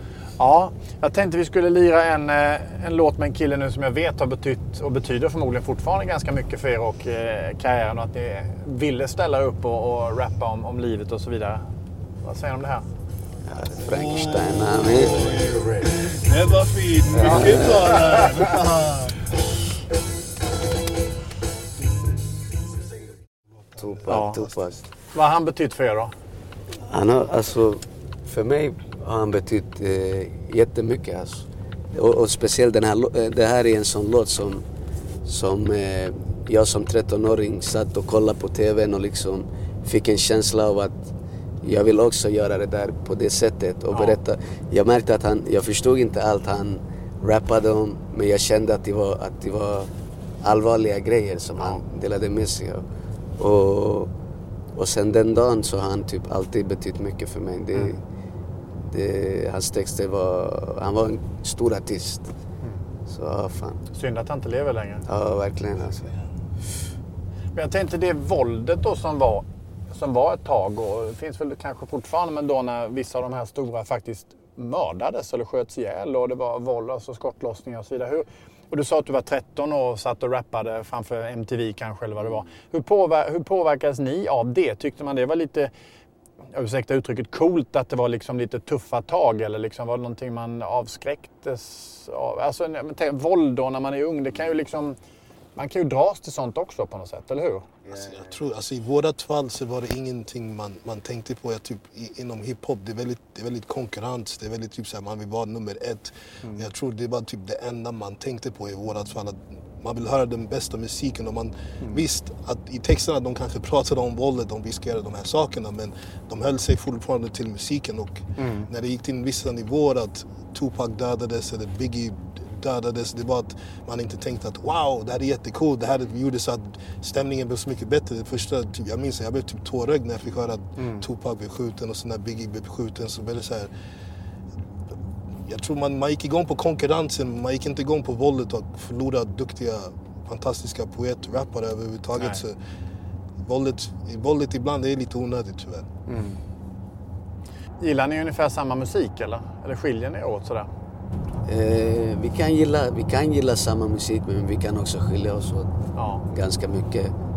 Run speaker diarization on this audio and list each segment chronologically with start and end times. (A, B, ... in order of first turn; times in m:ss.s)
0:00.4-0:11.6 A
0:12.2-0:12.9 A
0:13.4-0:15.7 B
0:13.8-0:19.3 C
0:17.2-0:18.0 B
0:17.2-0:18.4 A
0:23.7-0:24.4 C
0:23.8-0:24.9 B
0:24.1-0:24.4 A
0:25.1-0:26.1 A
0:26.8-0:34.6 B
0:35.2-0:49.9 B
0:43.9-0:44.2 A
0:50.4-0:52.8 B
0:53.4-0:54.1 B
0:54.8-0:58.0 B
0:58.8-1:02.3 B
1:03.1-1:03.8 B
1:03.9-1:05.0 A
1:05.1-1:06.1 B
1:07.6-1:25.7 A
1:26.5-1:35.0 A
1:35.6-1:37.6 A
1:37.8-1:38.5 B
1:37.9-2:13.7 C
1:58.4-1:58.7 A
2:10.8-2:11.0 A
2:15.4-2:22.6 C
2:23.4-2:25.9 C
2:26.1-2:26.4 A
2:27.8-2:30.7 A
2:31.5-2:35.7 B
2:36.0-2:36.2 A
2:36.3-2:37.1 B